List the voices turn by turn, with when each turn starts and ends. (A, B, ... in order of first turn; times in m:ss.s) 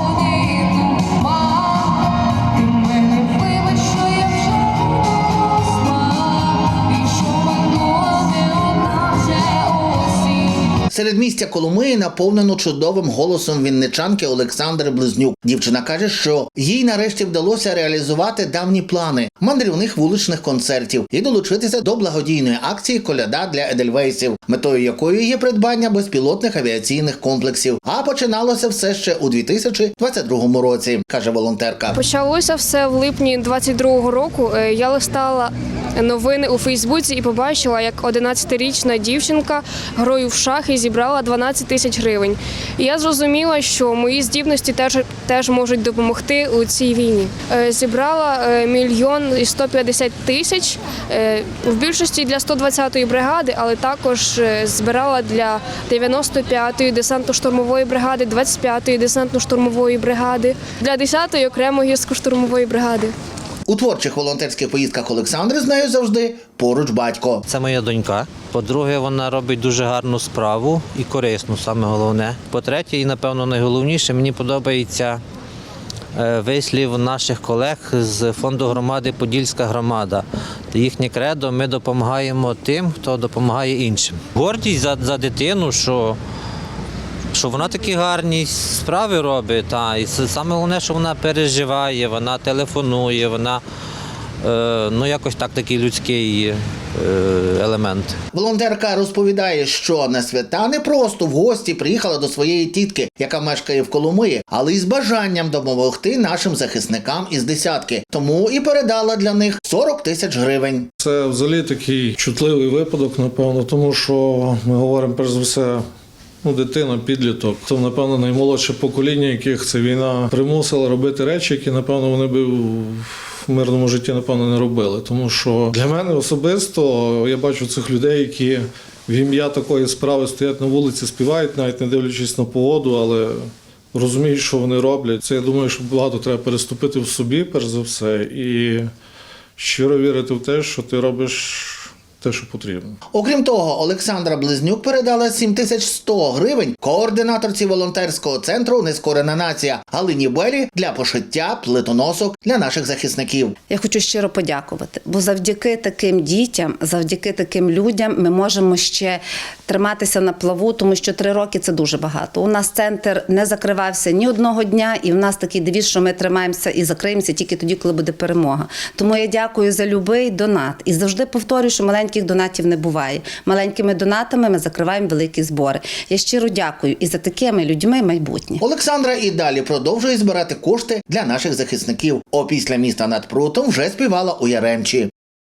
0:10.9-0:32.0 A
0:31.9-1:03.1 B
1:03.7-1:07.4 A
1:07.5-1:15.2 C
1:16.1-1:26.2 C
1:27.3-1:33.6 C
1:34.4-1:38.2 C
1:38.3-1:50.9 A
1:51.0-1:55.8 D
1:56.4-2:18.9 D
2:19.6-2:23.0 D
2:23.1-2:33.6 A
2:33.7-2:58.6 E
2:58.6-3:05.1 A